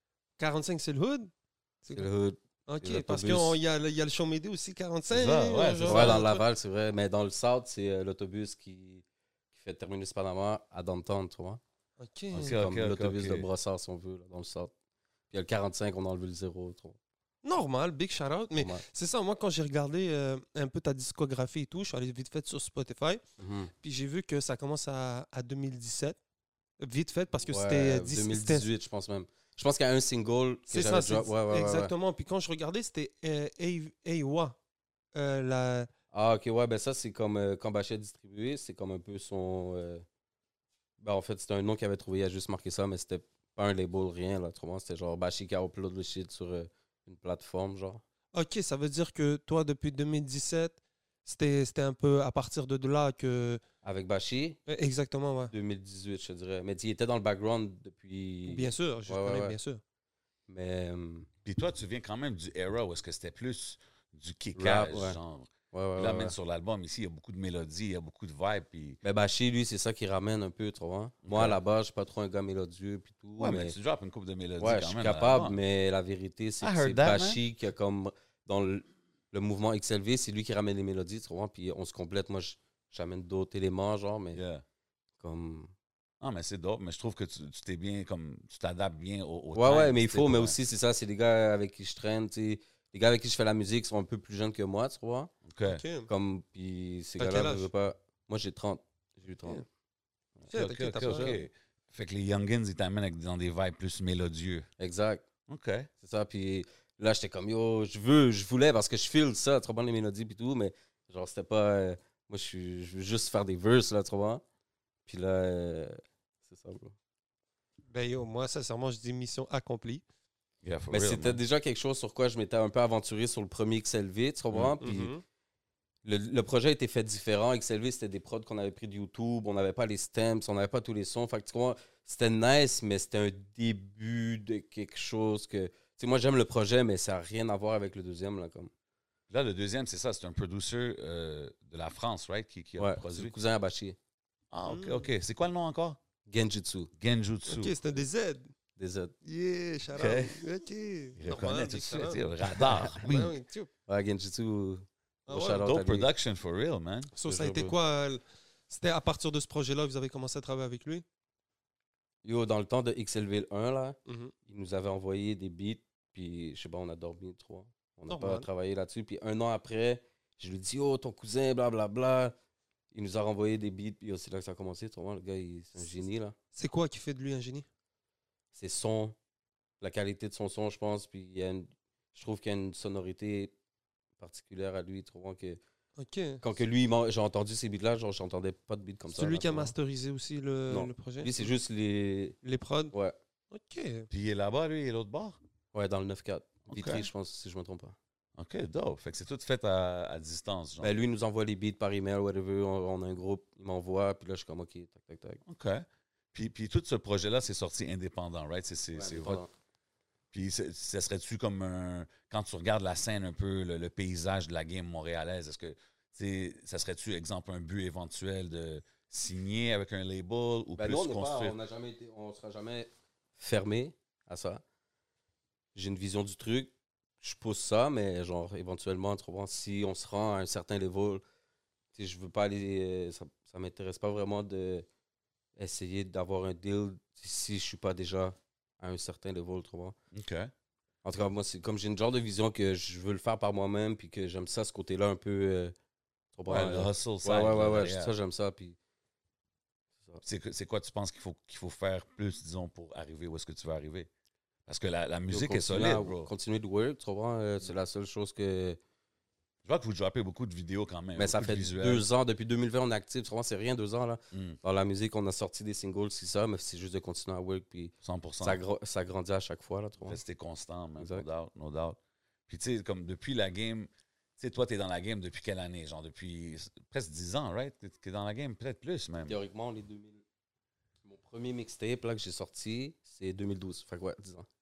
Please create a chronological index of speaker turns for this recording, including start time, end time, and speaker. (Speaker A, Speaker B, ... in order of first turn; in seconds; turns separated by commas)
Speaker A: 0.4-1.3, Speaker A: 1.8-2.1, Speaker B: 1.9-3.6, Speaker A: 2.7-6.4, Speaker C: 5.1-6.2, Speaker B: 5.9-11.6, Speaker A: 12.0-12.6, Speaker C: 12.3-13.5, Speaker B: 12.3-14.7, Speaker B: 15.3-17.0, Speaker A: 17.4-23.2, Speaker B: 18.6-18.8, Speaker B: 23.4-23.7, Speaker A: 23.8-26.2, Speaker A: 26.8-28.7, Speaker B: 27.5-31.9, Speaker A: 30.7-34.6, Speaker A: 35.1-35.9, Speaker B: 36.1-40.0, Speaker B: 41.0-48.0, Speaker A: 48.3-53.6, Speaker B: 53.8-54.6, Speaker A: 54.7-55.5, Speaker B: 55.5-59.6, Speaker A: 58.5-59.8, Speaker B: 60.5-61.3, Speaker C: 61.5-69.0, Speaker B: 64.6-65.2, Speaker B: 65.7-66.3, Speaker B: 69.0-73.8, Speaker C: 71.2-71.6, Speaker C: 73.4-75.6, Speaker B: 74.6-84.4, Speaker C: 76.6-77.4, Speaker C: 84.3-84.6, Speaker B: 85.2-85.7, Speaker C: 86.2-90.6, Speaker B: 89.5-95.3, Speaker C: 95.5-95.8, Speaker A: 95.7-96.1, Speaker B: 96.1-99.7, Speaker A: 97.2-97.7, Speaker C: 100.5-104.7, Speaker A: 100.5-101.4, Speaker B: 101.0-101.4, Speaker B: 104.8-105.3, Speaker C: 105.5-105.9, Speaker B: 106.0-114.4, Speaker B: 115.1-116.9, Speaker A: 117.9-120.0, Speaker C: 120.6-121.4, Speaker B: 120.9-125.1, Speaker A: 124.8-125.2, Speaker B: 126.0-138.7, Speaker C: 139.3-143.3, Speaker B: 142.8-144.0, Speaker C: 144.5-146.0, Speaker A: 144.7-145.1, Speaker B: 146.3-146.9, Speaker C: 147.0-147.8, Speaker A: 147.5-148.5, Speaker B: 148.8-149.1, Speaker A: 149.2-153.7, Speaker C: 149.9-150.4, Speaker C: 151.2-153.4, Speaker B: 153.9-156.1, Speaker A: 155.3-155.7, Speaker C: 155.6-157.1, Speaker A: 157.2-161.0, Speaker B: 157.2-157.8, Speaker B: 162.2-172.3, Speaker A: 164.1-164.3, Speaker A: 168.1-168.5, Speaker B: 172.9-176.3, Speaker A: 176.6-177.7, Speaker B: 178.6-179.2, Speaker B: 179.8-183.5, Speaker B: 184.2-185.6, Speaker A: 186.0-186.4, Speaker B: 186.4-189.7, Speaker A: 189.1-191.5, Speaker B: 190.7-192.4, Speaker A: 192.4-192.9, Speaker B: 192.9-193.2, Speaker A: 193.5-194.1, Speaker C: 194.1-195.4, Speaker B: 195.7-198.0, Speaker C: 196.7-197.1, Speaker C: 198.4-200.9, Speaker B: 200.8-205.4, Speaker C: 205.5-209.4, Speaker B: 208.9-209.5, Speaker C: 210.3-221.6, Speaker B: 220.8-224.6, Speaker B: 225.8-231.2, Speaker B: 231.9-234.9, Speaker B: 235.6-239.9, Speaker C: 240.1-240.5, Speaker B: 241.0-245.8, Speaker B: 246.4-248.8, Speaker C: 246.5-248.2, Speaker C: 250.2-254.1, Speaker C: 254.7-256.3, Speaker B: 255.3-258.8, Speaker C: 259.6-262.1, Speaker B: 261.2-270.2, Speaker C: 264.3-264.6, Speaker C: 268.0-268.6, Speaker C: 270.1-279.4, Speaker B: 271.0-271.3, Speaker B: 279.3-280.2, Speaker B: 281.1-284.5